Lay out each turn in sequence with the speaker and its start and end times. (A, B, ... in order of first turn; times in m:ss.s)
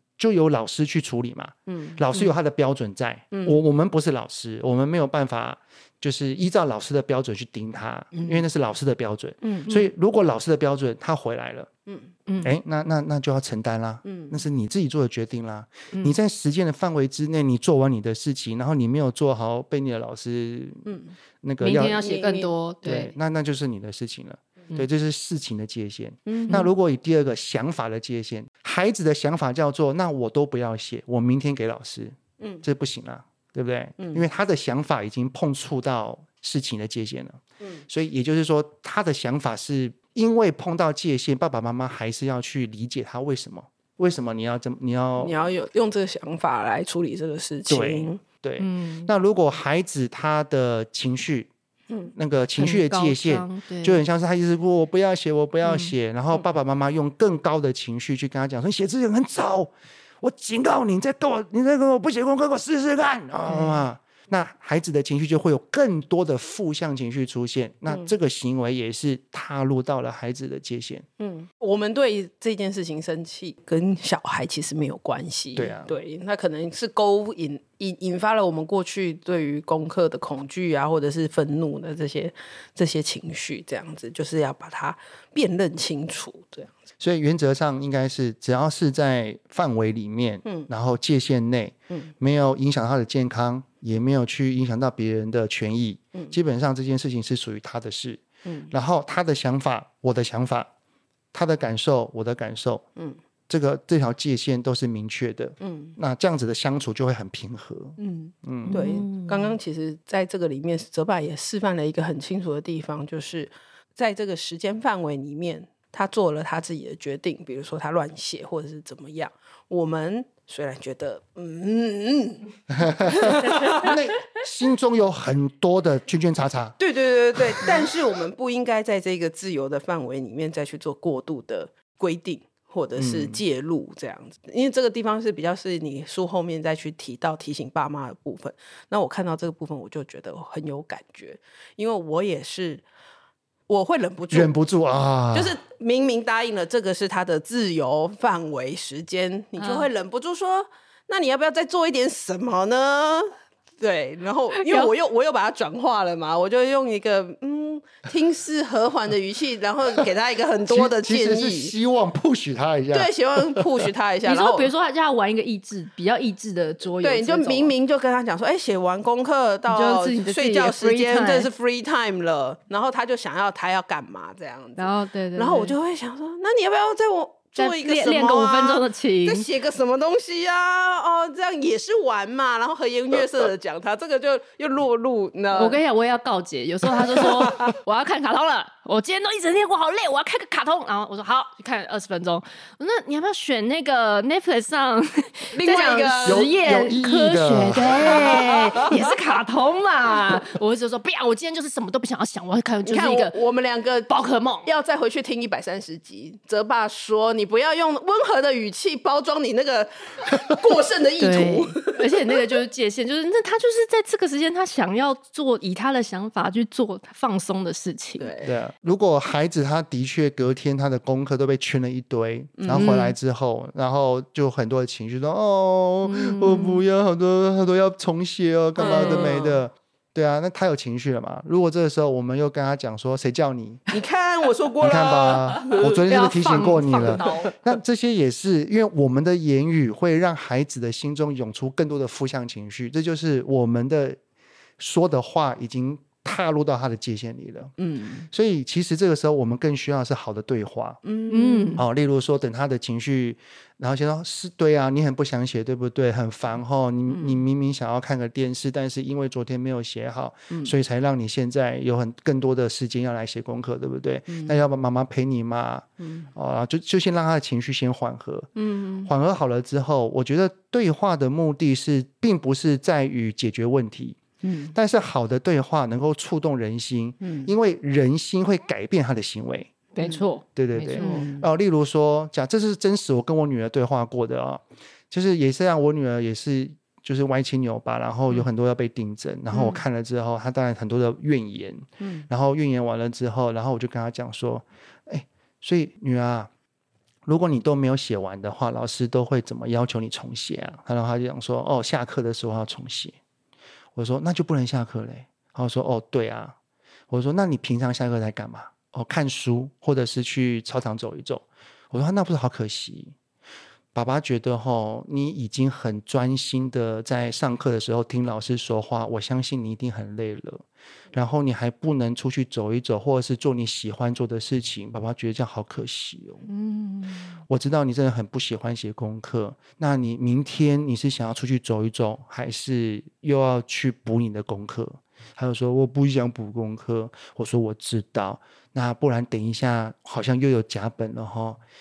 0:00.2-0:11.7 A
0:01.7-0:02.0 B
0:03.3-0:03.6 B
0:08.1-0:08.4 B
0:09.4-0:09.7 B
0:12.3-0:12.6 C
0:12.4-0:20.9 A
0:14.0-0:14.4 B
0:20.8-0:21.1 B
0:21.4-0:22.0 A
0:21.6-0:23.1 C
0:22.0-0:22.5 B
0:22.8-0:45.4 A
0:26.2-0:26.6 B
0:32.4-0:32.6 B
0:34.0-0:34.2 B
0:45.2-0:48.2 B
0:47.7-0:51.5 A
0:48.6-0:49.1 C
0:52.1-1:11.0 A
0:52.6-0:54.0 C
0:55.6-0:55.9 C
1:03.5-1:03.8 C
1:11.2-1:26.7 B
1:15.5-1:15.9 A
1:27.0-1:40.7 A
1:30.4-1:30.7 B
1:38.4-1:38.7 B
1:41.3-1:42.8 A
1:43.5-1:48.8 A
1:45.6-1:45.9 B
1:48.0-2:04.0 B
1:48.7-1:49.6 C
2:02.7-2:06.7 A
2:03.3-2:03.9 C
2:06.8-2:22.8 B
2:13.0-2:13.4 A
2:23.7-2:24.5 B
2:24.3-2:25.6 A
2:25.3-2:41.7 B
2:29.6-2:29.9 C
2:34.6-2:34.9 C
2:40.7-2:43.9 A
2:42.9-2:44.7 B
2:44.2-2:47.7 C
2:47.0-3:05.8 B
2:49.7-2:51.5 C
2:54.8-2:55.8 C
2:57.6-2:59.4 C
3:05.5-3:23.4 C
3:07.2-3:07.7 B
3:15.5-3:16.6 B
3:16.2-3:18.3 A
3:18.0-3:18.7 B
3:22.8-3:32.5 B
3:24.1-3:24.7 C
3:31.2-3:38.3 C
3:38.2-3:38.5 B
3:38.4-3:53.8 A
3:42.6-3:43.0 B
3:42.7-3:43.1 C
3:46.0-3:46.8 C
3:48.8-3:49.3 C
3:48.8-3:49.6 B
3:53.9-3:56.0 B
3:54.8-4:04.2 A
3:55.3-3:57.5 C
3:57.1-3:57.5 B
4:04.8-4:07.7 A
4:07.8-4:08.3 B
4:08.3-4:11.0 A
4:11.0-4:11.8 B
4:11.3-4:11.8 C
4:11.8-4:28.5 A
4:17.1-4:17.4 B
4:24.3-4:24.6 B
4:26.0-4:26.3 B
4:28.6-4:29.1 B
4:29.0-4:34.2 A
4:34.4-4:34.7 B
4:34.7-4:39.7 A
4:37.2-4:37.5 B
4:39.9-4:41.2 C
4:40.6-4:56.5 A
4:41.0-4:41.5 B
4:52.0-4:52.2 B
4:57.2-5:03.2 A
5:04.0-5:06.6 A
5:07.1-5:13.1 A
5:13.9-5:26.4 A
5:26.5-5:27.4 C
5:27.5-5:41.6 A